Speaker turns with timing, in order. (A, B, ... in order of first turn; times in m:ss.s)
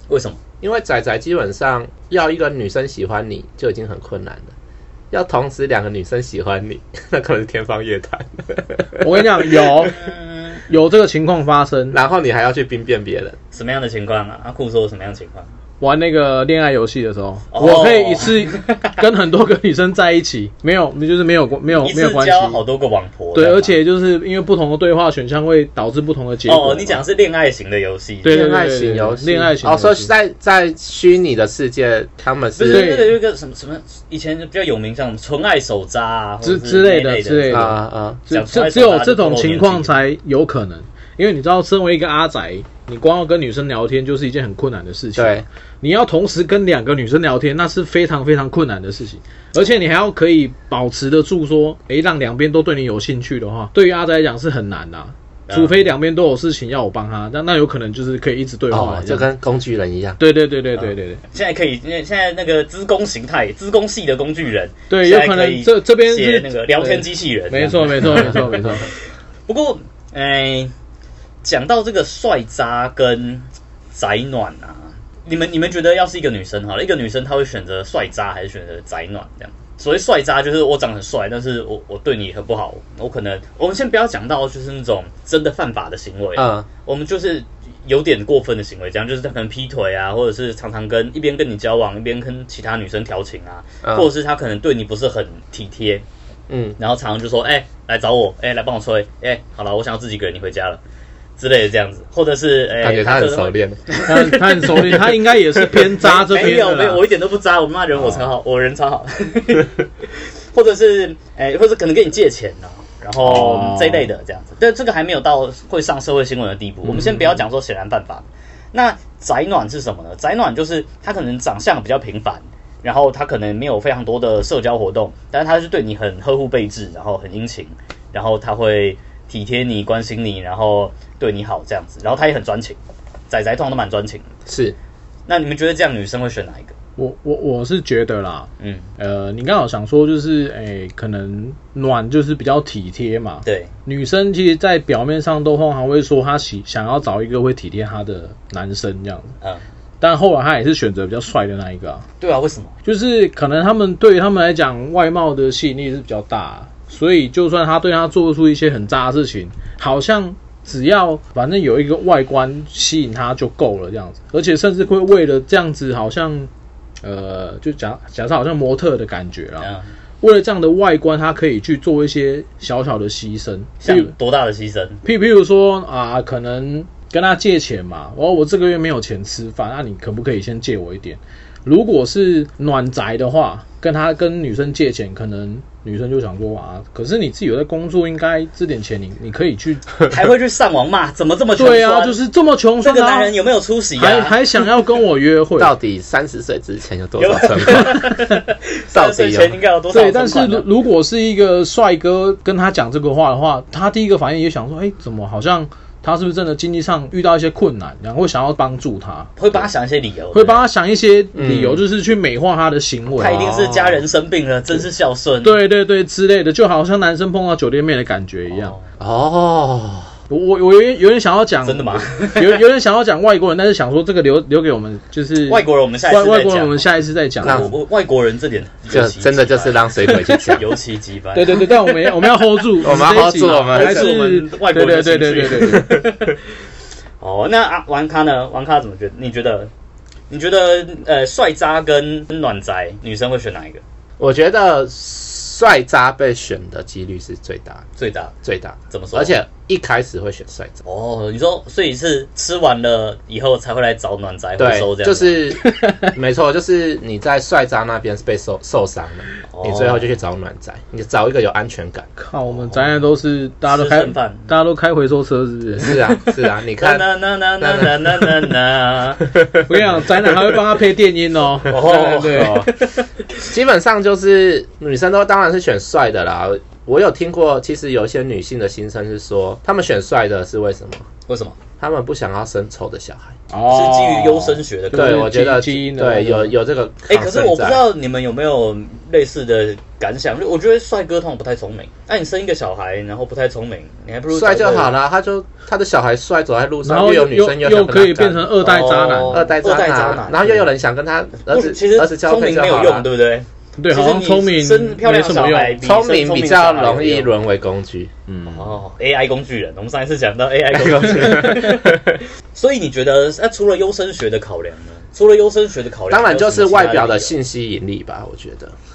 0:00.1-0:00.4 A
0:00.6-0:04.5 B
0:05.1-0:09.9 B
0:09.0-0:10.0 C
0:09.8-0:10.6 A
0:10.7-0:12.0 C
0:11.9-0:13.4 B
0:13.5-0:15.5 A
0:15.8-0:22.6 C
0:17.5-0:19.0 A
0:21.7-0:23.8 A
0:23.3-0:27.0 C
0:26.5-0:28.5 A
0:28.2-0:30.1 C
0:28.3-0:32.9 B
0:32.6-0:37.7 A
0:32.7-0:33.2 C
0:36.4-0:59.3 C
0:37.5-0:38.2 B
0:38.3-0:40.0 A
0:45.2-0:45.4 B
0:55.5-0:55.8 A
0:58.7-1:00.2 B
1:00.2-1:01.2 C
1:00.8-1:08.9 A
1:04.9-1:08.9 C
1:08.1-1:08.4 B
1:09.5-1:10.7 A
1:11.4-1:36.0 A
1:26.4-1:26.7 B
1:33.8-1:34.1 B
1:36.5-1:36.8 B
1:36.8-1:40.8 A
1:41.4-1:45.1 A
1:42.8-1:43.8 B
1:44.1-1:47.0 C
1:46.0-2:12.8 A
1:48.0-1:48.3 B
1:53.2-1:54.1 C
1:56.9-1:57.4 C
2:13.3-2:14.3 A
2:14.5-2:14.8 B
2:15.3-2:16.7 A
2:17.0-2:29.3 C
2:18.6-2:18.9 A
2:23.4-2:23.7 A
2:30.0-2:32.1 C
2:32.2-2:32.7 A
2:32.8-2:46.5 C
2:47.0-2:54.1 C
2:49.6-2:49.9 A
2:53.8-2:55.0 A
2:55.0-3:10.0 C
3:10.0-3:12.2 A
3:11.6-3:13.4 C
3:12.8-3:14.4 A
3:14.0-3:15.7 C
3:15.6-3:18.1 B
3:17.2-3:20.7 A
3:18.9-3:19.6 B
3:19.9-3:29.3 C
3:29.4-3:30.6 A
3:30.3-3:33.5 C
3:31.3-3:31.8 B
3:33.2-3:34.0 B
3:33.2-3:35.6 A
3:35.4-3:38.8 C
3:38.5-3:38.8 A
3:39.0-3:40.1 B
3:40.3-3:47.7 C
3:41.6-3:42.6 A
3:45.5-3:46.8 A
3:47.4-3:47.7 B
3:47.4-3:56.4 A
3:48.9-3:50.6 B
3:51.3-3:56.0 C
3:52.8-3:54.2 B
3:57.2-3:59.7 A
4:00.3-4:03.8 A
4:04.2-4:07.9 B
4:08.0-4:08.3 A
4:08.4-4:10.8 B
4:08.9-4:09.4 A
4:10.8-4:15.4 A
4:14.6-4:22.1 B
4:15.6-4:16.1 C
4:19.5-4:20.1 A
4:22.2-4:26.1 C
4:22.5-4:23.0 A
4:23.7-4:24.5 A
4:25.7-4:27.1 B
4:26.8-4:29.3 A
4:27.6-4:28.5 B
4:29.2-4:29.9 B
4:29.7-4:32.7 C
4:31.7-4:33.5 A
4:31.8-4:32.7 B
4:33.5-4:41.1 B
4:41.3-4:41.6 A
4:41.8-4:43.4 B
4:43.5-4:46.6 C
4:43.7-4:45.3 A
4:44.9-4:47.8 B
4:47.1-4:55.0 A
4:54.3-4:58.5 B
4:56.8-4:59.5 C
4:58.6-5:00.7 A
4:59.3-5:03.1 B
5:01.4-5:07.3 A
5:03.8-5:05.8 C
5:05.8-5:08.1 B
5:08.3-5:08.8 C
5:08.5-5:17.3 A
5:10.7-5:12.2 B
5:16.1-5:18.7 B